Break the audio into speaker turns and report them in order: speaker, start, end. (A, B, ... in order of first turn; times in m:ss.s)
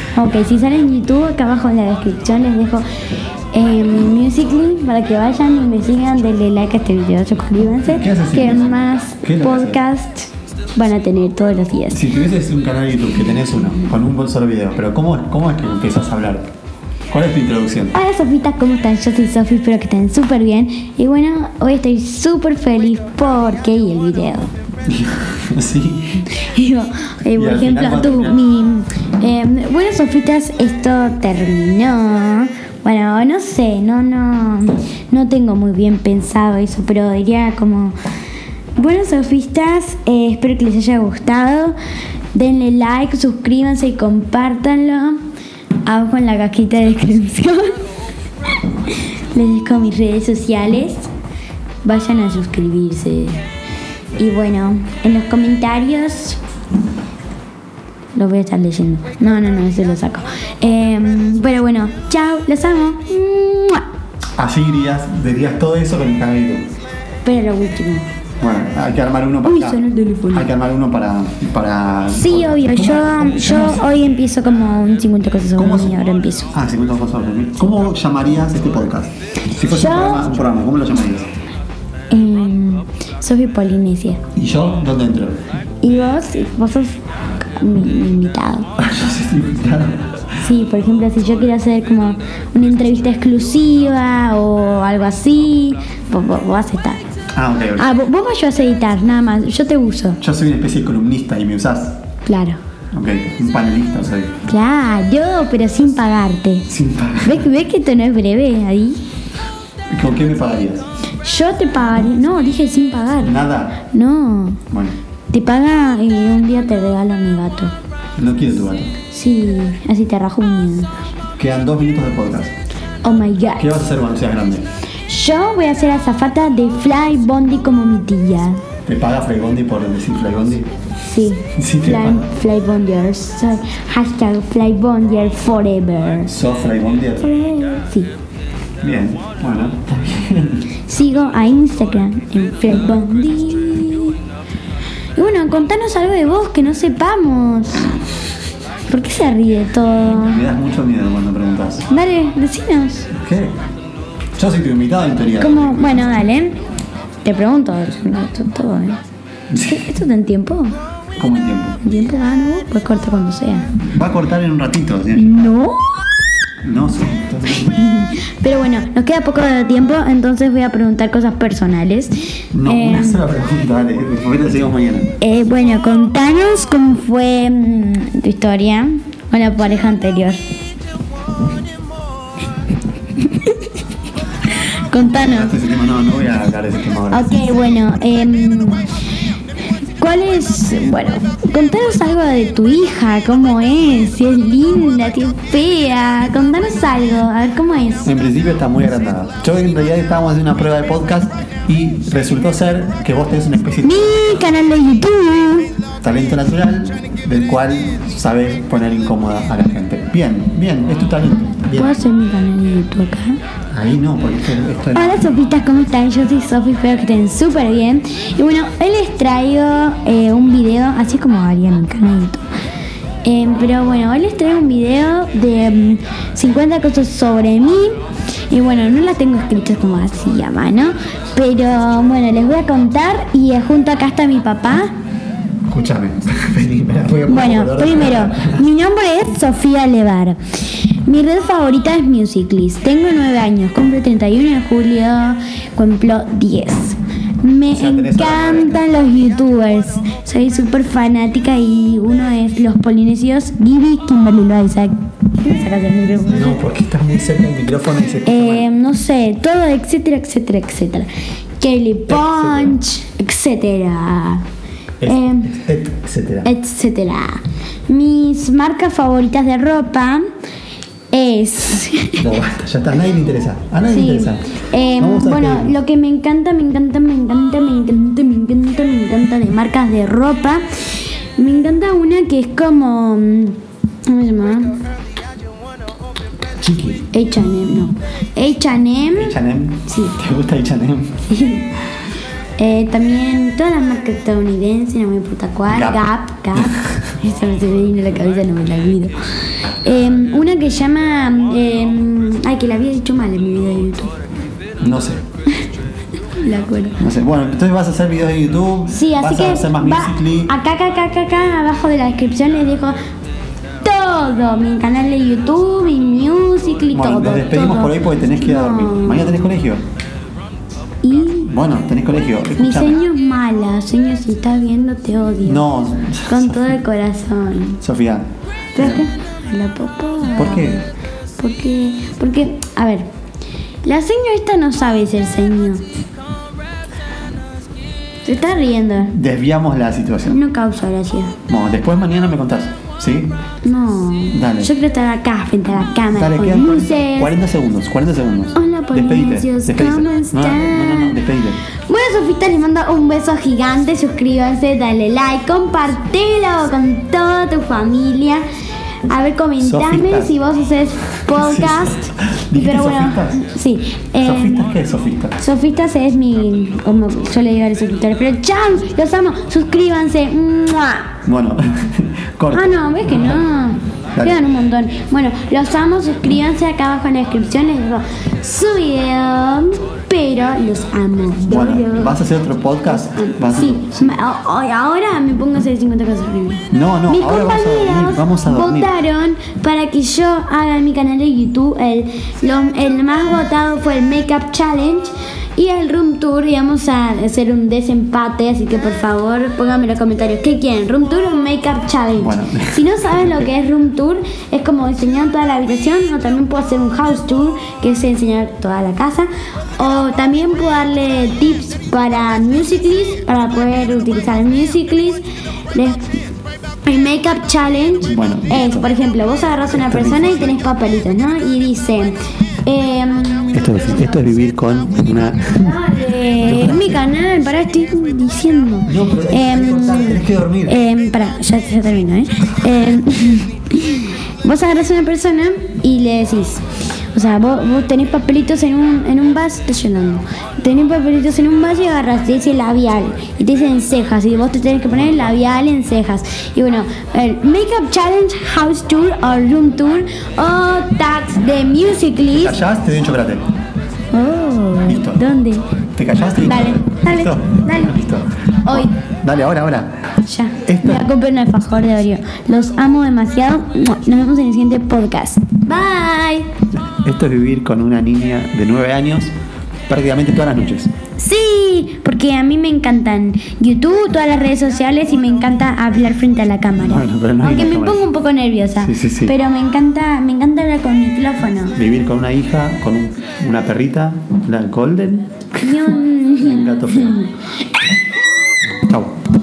0:00.2-0:02.8 A
0:03.5-0:12.0 A
0:07.9-0:09.8 B
0:11.9-0:16.5 B
0:17.1-0:18.0 B
0:17.9-0:24.5 A
0:24.9-0:26.3 B
0:26.3-0:38.0 A
0:27.4-0:28.4 B
0:38.8-0:41.8 A
0:42.3-0:45.2 A
0:45.8-0:47.8 A
0:48.9-0:51.1 A
0:51.8-0:53.4 A
0:54.2-0:56.4 A
0:58.2-1:03.8 A
1:04.4-1:06.6 B
1:07.2-1:08.1 A
1:08.4-1:13.9 B
1:09.4-1:10.5 A
1:12.1-1:16.5 A
1:15.6-1:16.0 B
1:16.5-1:21.3 B
1:19.5-1:20.3 A
1:22.1-1:24.2 A
1:24.4-1:25.4 B
1:25.8-1:28.7 A
1:28.8-1:30.3 B
1:30.4-1:37.0 A
1:37.3-1:37.9 B
1:37.8-1:40.2 A
1:40.2-1:42.0 B
1:42.3-1:42.6 A
1:42.9-1:44.3 B
1:44.5-1:46.7 A
1:46.7-1:47.5 B
1:47.2-1:49.0 A
1:49.9-1:50.9 B
1:51.2-1:54.6 A
1:53.2-1:53.8 B
1:54.7-1:55.0 B
1:55.3-1:57.7 A
1:58.2-1:58.9 B
1:59.1-2:00.9 A
2:01.4-2:02.5 B
2:03.0-2:03.7 A
2:03.6-2:04.7 B
2:05.1-2:08.6 A
2:08.9-2:10.7 B
2:11.1-2:16.3 A
2:11.6-2:12.3 B
2:16.3-2:17.3 B
2:17.2-2:18.1 A
2:18.8-2:20.7 B
2:20.8-2:24.2 A
2:25.2-2:28.0 A
2:28.9-2:30.4 A
2:30.1-2:31.9 B
2:31.9-2:33.1 A
2:33.1-2:33.6 B
2:34.4-2:36.2 B
2:35.4-2:36.6 A
2:37.2-2:39.0 A
2:39.5-2:39.9 B
2:39.6-2:40.8 A
2:41.2-2:41.8 B
2:41.8-2:43.7 A
2:43.9-2:45.4 B
2:45.1-2:46.1 A
2:46.6-2:47.8 B
2:47.5-2:53.2 A
2:52.5-2:55.1 B
2:55.2-3:00.4 A
3:03.2-3:03.6 A
3:04.5-3:05.6 A
3:04.9-3:07.5 B
3:07.1-3:08.8 A
3:10.0-3:18.1 A
3:18.0-3:24.2 B
3:23.8-3:25.7 A
3:26.0-3:32.0 B
3:31.7-3:33.4 A
3:33.7-3:35.2 B
3:34.9-3:42.4 A
3:43.2-3:54.9 A
3:55.7-3:58.6 B
3:57.3-4:16.6 A
4:07.7-4:08.8 B
4:16.3-4:18.7 B
4:18.2-4:21.1 A
4:21.6-4:24.4 A
4:22.1-4:22.8 B
4:25.0-4:26.5 B
4:25.0-4:25.6 A
4:26.4-4:30.2 A
4:31.1-4:32.3 A
4:32.2-4:35.8 B
4:33.9-4:44.8 A
4:46.6-4:47.1 B
4:47.1-4:50.2 A
4:49.2-4:51.2 B
4:51.3-4:51.7 A
4:52.6-4:59.2 A
4:55.7-4:56.9 B
4:59.8-5:04.1 A
5:04.8-5:05.2 B
5:06.3-5:07.0 A
5:07.0-5:10.5 B
5:08.9-5:13.0 A
5:13.8-5:19.5 A
5:16.9-5:19.8 B
5:21.0-5:21.4 A
5:21.3-5:23.0 B
5:22.6-5:25.7 A
5:25.4-5:26.8 B
5:26.3-5:27.8 A
5:27.8-5:29.1 B
5:28.8-5:30.8 A
5:30.3-5:30.8 B
5:31.4-5:33.1 A
5:33.8-5:35.8 A
5:38.2-5:39.2 A
5:39.1-5:40.4 B
5:40.3-5:41.4 A
5:41.5-5:43.4 B
5:43.6-5:47.3 A
5:44.3-5:44.7 B
5:46.1-5:51.6 B
5:48.6-5:51.2 A
5:51.8-5:58.4 A
5:59.1-6:04.7 A
5:59.6-6:00.4 B
6:01.3-6:03.4 B
6:04.2-6:05.4 B
6:05.4-6:11.2 A
6:11.2-6:13.4 B
6:12.5-6:22.2 A
6:14.2-6:14.4 B
6:21.5-6:24.2 B
6:22.8-6:56.1 A
6:26.7-6:28.9 B
6:42.2-6:43.5 B
6:56.9-7:04.3 A
6:58.0-6:58.9 B
6:59.7-7:00.6 B
7:03.5-7:05.8 B
7:05.5-7:32.6 A
7:06.4-7:07.0 B
7:08.9-7:10.8 B
7:24.9-7:25.4 B
7:32.3-7:33.5 B
7:34.1-7:35.7 A
7:34.9-7:35.2 B
7:36.0-7:40.0 B
7:36.4-7:38.0 A
7:38.6-7:38.9 A
7:40.2-7:46.5 A
7:40.7-7:41.1 B
7:46.9-7:49.3 B
7:49.9-7:50.9 B
7:51.2-8:01.8 A
7:56.8-7:58.0 B
7:58.8-7:59.4 B
8:01.8-8:05.8 B
8:05.6-8:07.4 A
8:06.4-8:07.2 B
8:08.9-8:09.1 B